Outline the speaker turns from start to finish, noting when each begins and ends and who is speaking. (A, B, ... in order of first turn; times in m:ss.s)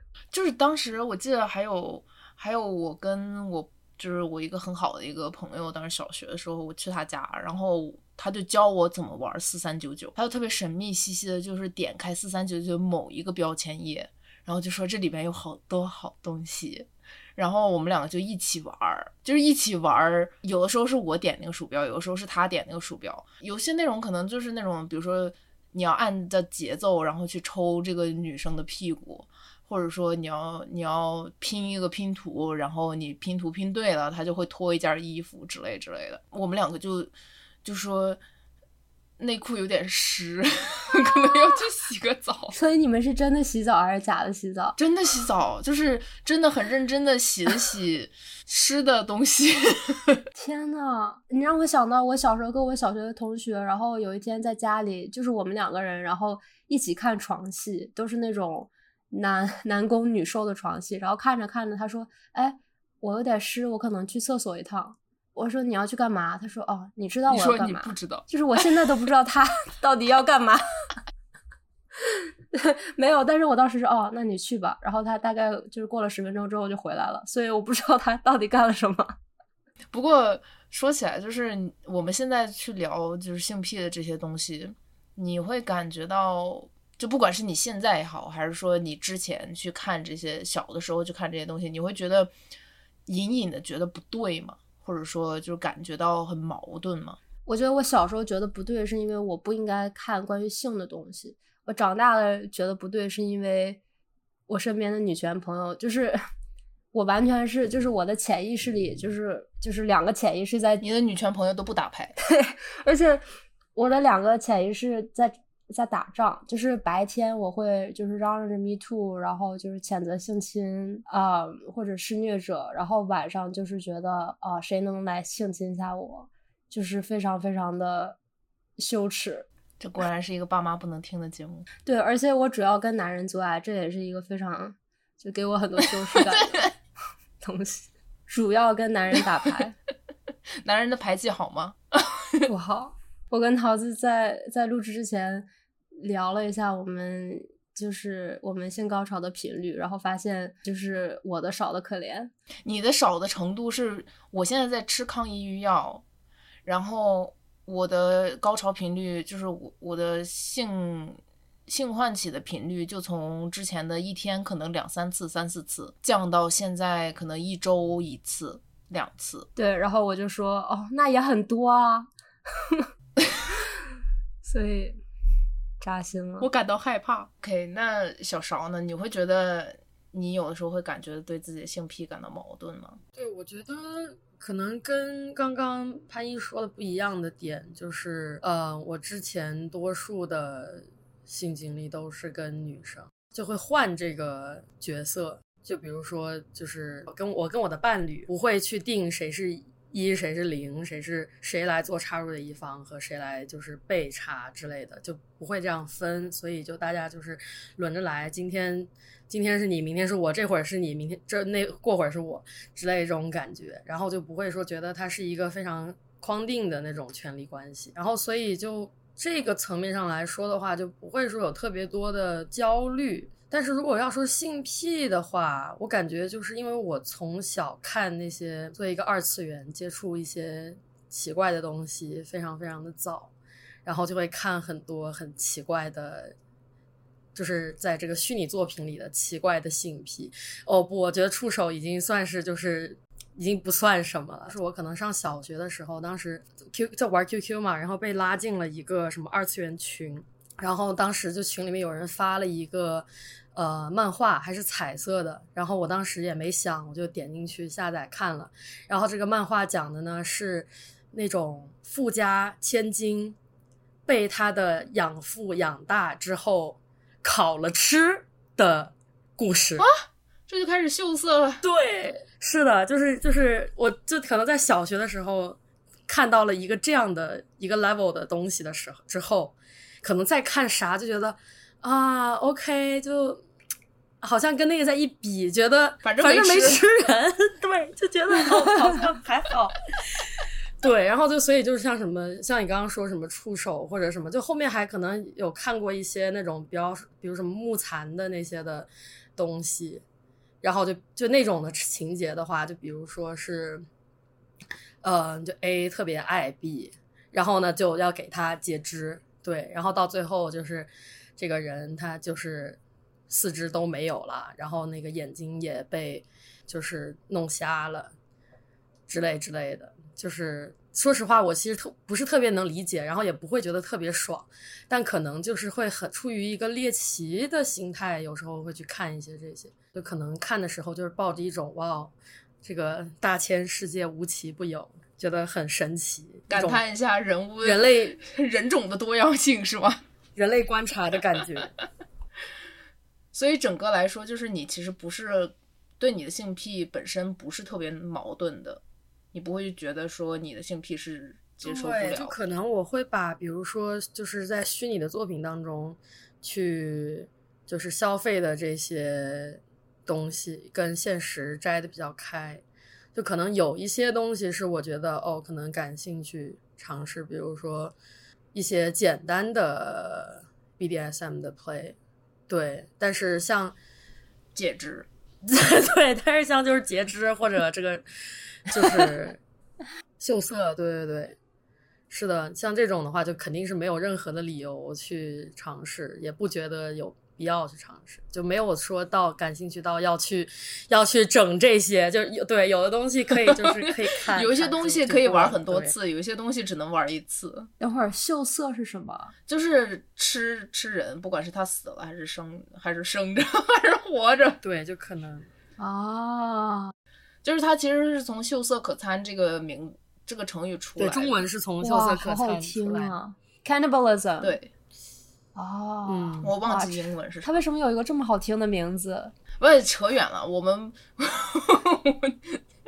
0:00.3-0:37.1 A
0:37.6-0:38.2 A
0:39.2-0:42.5 A
0:42.5-0:44.8 B
0:44.8-0:50.2 A
0:50.4-1:11.0 B
1:07.3-1:08.2 A
1:12.0-1:19.2 B
1:19.9-1:32.3 A
1:33.0-1:37.2 A
1:37.4-1:43.8 B
1:44.5-1:46.2 B
1:46.9-1:50.8 B
1:50.8-1:52.2 A
1:52.2-1:53.2 B
1:53.7-2:08.2 B
2:08.8-2:09.5 B
2:09.8-2:11.7 A
2:11.8-2:16.7 B
2:16.2-2:16.7 A
2:17.4-2:19.8 B
2:20.6-2:22.5 A
2:22.4-2:32.3 B
2:32.6-2:36.0 A
2:36.6-2:49.5 A
2:49.6-2:52.9 B
2:53.2-2:53.6 A
2:54.4-2:55.0 B
2:55.8-2:56.5 B
2:56.4-3:03.0 A
3:03.1-3:53.3 C
3:53.8-3:56.3 C
3:57.3-4:23.4 C
4:24.0-4:29.9 C
4:29.8-4:31.6 A
4:31.6-4:43.4 C
4:44.2-5:00.0 C
4:46.0-4:46.8 A
5:00.6-5:03.8 C
5:05.0-5:18.1 C
5:19.1-5:36.8 C
5:36.5-5:40.0 A
5:37.6-5:38.2 C
5:40.4-5:41.7 C
5:43.3-5:48.8 A
5:49.3-5:52.3 A
5:51.6-6:02.6 C
6:03.1-6:07.9 C
6:08.5-6:12.0 C
6:12.5-6:13.8 C
6:14.5-6:15.1 A
6:15.4-6:18.0 C
6:18.6-6:19.4 C
6:20.2-6:21.4 C
6:22.1-6:35.9 C
6:33.6-6:37.7 A
6:37.8-6:39.3 B
6:39.5-6:44.6 A
6:44.6-6:45.5 C
6:45.8-6:46.9 B
6:47.4-6:51.4 A
6:51.0-6:53.1 C
6:51.8-6:54.6 B
6:54.4-6:54.7 A
6:55.5-6:59.3 B
6:56.1-6:56.5 C
6:56.4-6:57.6 A
6:59.6-7:02.6 A